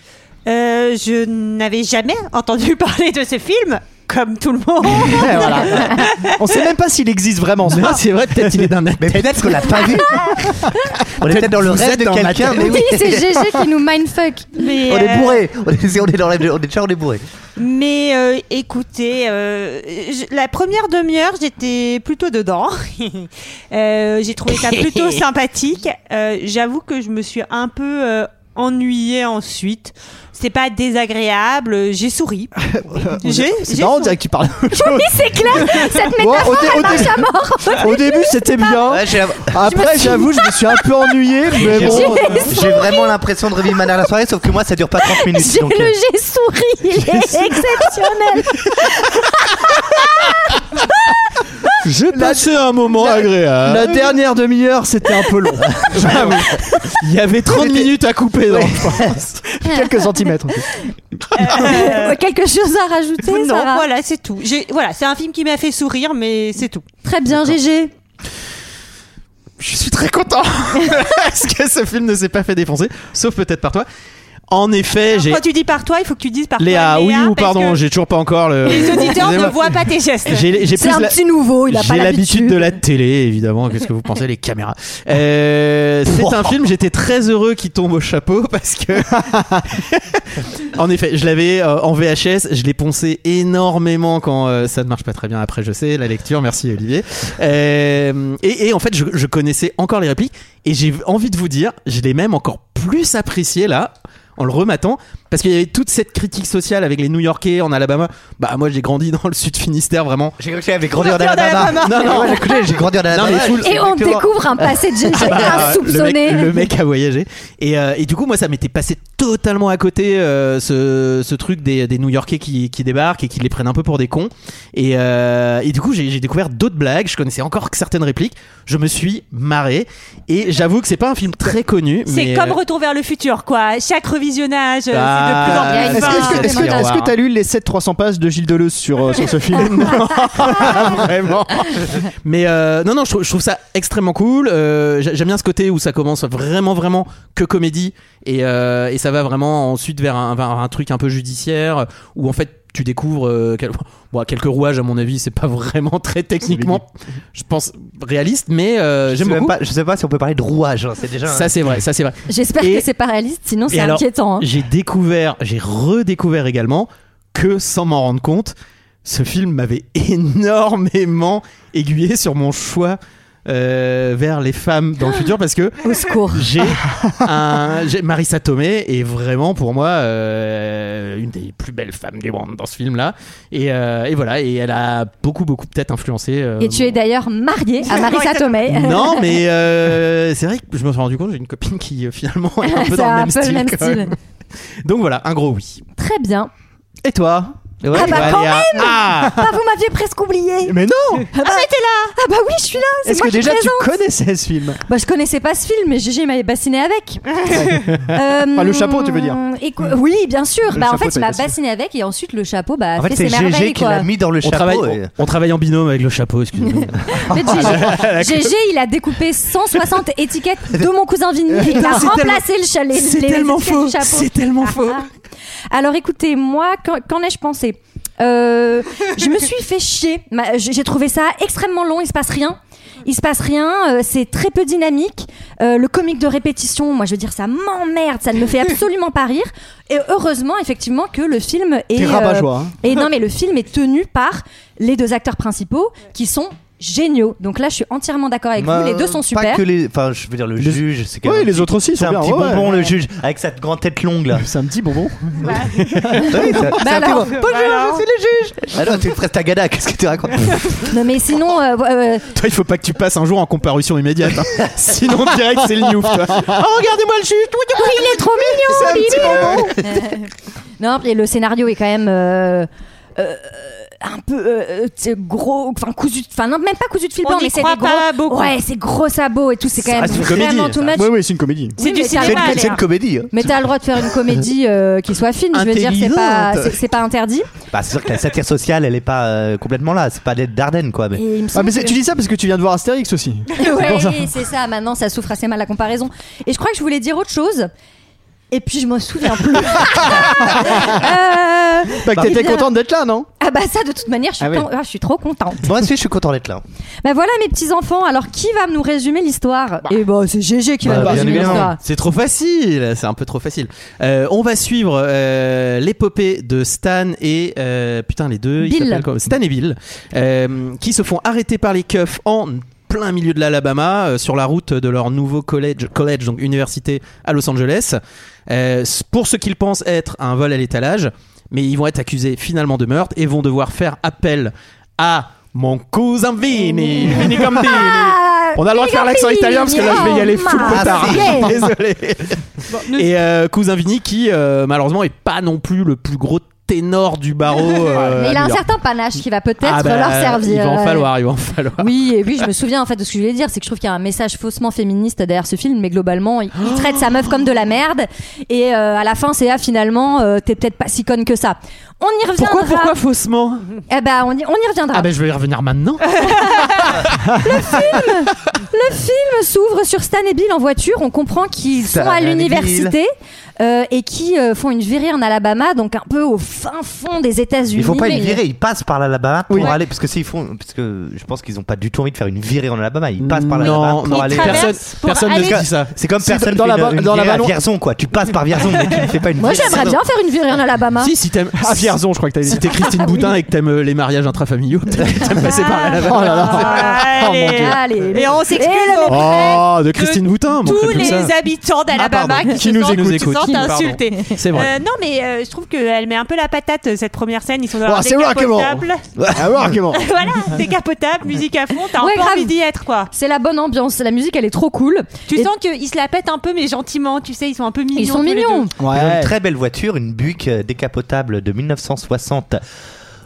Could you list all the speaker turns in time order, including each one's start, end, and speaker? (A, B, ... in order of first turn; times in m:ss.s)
0:00.5-0:06.6 A
0:04.8-0:08.7 B
0:07.7-0:09.7 C
0:09.0-0:10.2 D
0:10.1-0:10.4 E
0:11.2-0:13.3 D
0:11.2-0:12.8 C
0:12.6-0:14.6 E
0:14.6-0:15.4 A
0:14.9-0:17.2 D
0:17.6-0:32.5 A
0:24.5-0:25.2 C
0:32.6-0:42.4 B
0:33.1-0:34.2 A
0:34.7-0:38.8 E
0:38.9-0:39.5 D
0:39.6-0:41.1 E
0:41.6-0:46.0 D
0:41.7-0:43.2 E
0:41.7-0:42.1 C
0:45.1-0:50.3 E
0:51.8-0:54.1 C
0:52.1-0:56.6 B
0:55.9-0:59.6 C
0:57.4-0:57.9 B
0:58.5-1:00.7 B
1:01.4-1:02.2 A
1:01.6-1:03.8 E
1:03.2-1:06.9 A
1:07.0-1:07.9 E
1:09.6-1:13.9 C
1:14.5-1:15.4 C
1:15.0-1:17.8 A
1:16.6-1:50.4 C
1:18.6-1:20.6 A
1:20.8-1:22.8 E
1:26.1-1:26.6 D
1:50.4-1:55.8 D
1:51.2-1:51.6 A
1:51.6-1:52.4 B
1:51.6-1:53.7 C
1:53.6-1:56.5 E
1:55.1-2:12.6 C
2:12.1-2:16.4 A
2:14.9-2:17.2 C
2:15.5-2:16.9 E
2:15.9-2:21.4 B
2:19.5-2:39.6 C
2:36.5-2:36.8 B
2:39.1-2:41.5 D
2:41.3-2:42.9 C
2:42.3-2:44.5 E
2:43.7-2:48.5 C
2:49.0-3:07.0 C
2:55.8-2:56.5 E
3:06.6-3:09.4 E
3:07.8-3:08.6 A
3:08.7-3:14.2 C
3:12.6-3:14.1 E
3:14.8-3:15.8 C
3:16.0-3:16.5 E
3:17.0-3:19.2 B
3:17.8-3:19.4 C
3:17.9-3:20.8 E
3:20.6-3:21.3 B
3:21.3-3:24.0 E
3:21.4-3:22.2 A
3:23.0-3:24.8 B
3:24.9-3:27.5 E
3:27.5-3:29.4 B
3:28.1-3:34.1 E
3:30.7-3:31.5 B
3:33.0-3:35.1 D
3:34.4-3:38.5 C
3:37.3-3:45.1 E
3:41.5-3:42.1 B
3:41.8-3:45.0 C
3:45.7-4:09.6 E
4:02.0-4:03.0 B
4:08.6-4:14.5 D
4:10.6-4:12.9 B
4:14.4-4:16.7 B
4:15.8-4:16.2 C
4:16.2-4:17.5 E
4:16.3-4:20.8 D
4:17.3-4:18.0 A
4:20.9-4:22.2 E
4:22.3-4:29.6 C
4:27.8-4:30.3 E
4:28.6-4:29.8 B
4:30.8-4:41.1 E
4:37.2-4:38.6 A
4:39.8-4:40.8 C
4:40.9-4:41.8 B
4:41.8-4:42.8 A
4:41.8-4:47.5 E
4:42.2-4:43.6 D
4:45.5-4:46.8 C
4:47.7-4:51.2 D
4:51.2-4:52.0 E
4:51.5-4:54.3 B
4:53.6-4:57.7 E
4:58.5-5:02.7 E
4:59.9-5:01.0 B
5:02.0-5:03.3 B
5:03.4-5:05.6 E
5:04.4-5:04.7 B
5:05.6-5:06.6 D
5:07.0-5:11.8 E
5:10.8-5:11.7 D
5:10.9-5:11.6 B
5:11.2-5:48.6 C
5:18.6-5:19.1 E
5:37.0-5:41.5 E
5:40.6-5:41.5 D
5:42.8-5:43.1 A
5:48.1-5:51.1 E
5:49.6-5:51.9 C
5:51.8-6:03.0 E
5:56.6-5:57.1 C
6:02.4-6:03.7 C
6:03.9-6:05.1 E
6:04.9-6:07.2 C
6:06.2-6:18.4 E
6:11.8-6:13.0 D
6:17.7-6:30.0 D
6:19.5-6:19.7 B
6:23.2-6:25.9 C
6:23.6-6:25.6 A
6:26.2-6:27.5 B
6:29.4-6:31.1 E
6:31.0-6:36.8 C
6:31.6-6:32.7 B
6:32.9-6:33.3 E
6:35.5-6:37.0 E
6:36.0-6:38.0 B
6:36.3-6:49.0 A
6:37.5-6:39.5 E
6:39.1-6:41.3 C
6:40.7-6:41.3 B
6:42.0-6:43.4 B
6:42.4-6:44.7 C
6:47.8-6:50.1 B
6:49.2-6:49.7 D
6:49.9-6:53.1 A
6:52.0-6:52.6 E
6:53.1-6:55.5 E
6:55.3-6:58.8 A
6:58.0-6:58.7 E
6:58.8-6:59.3 B
6:58.9-7:02.6 D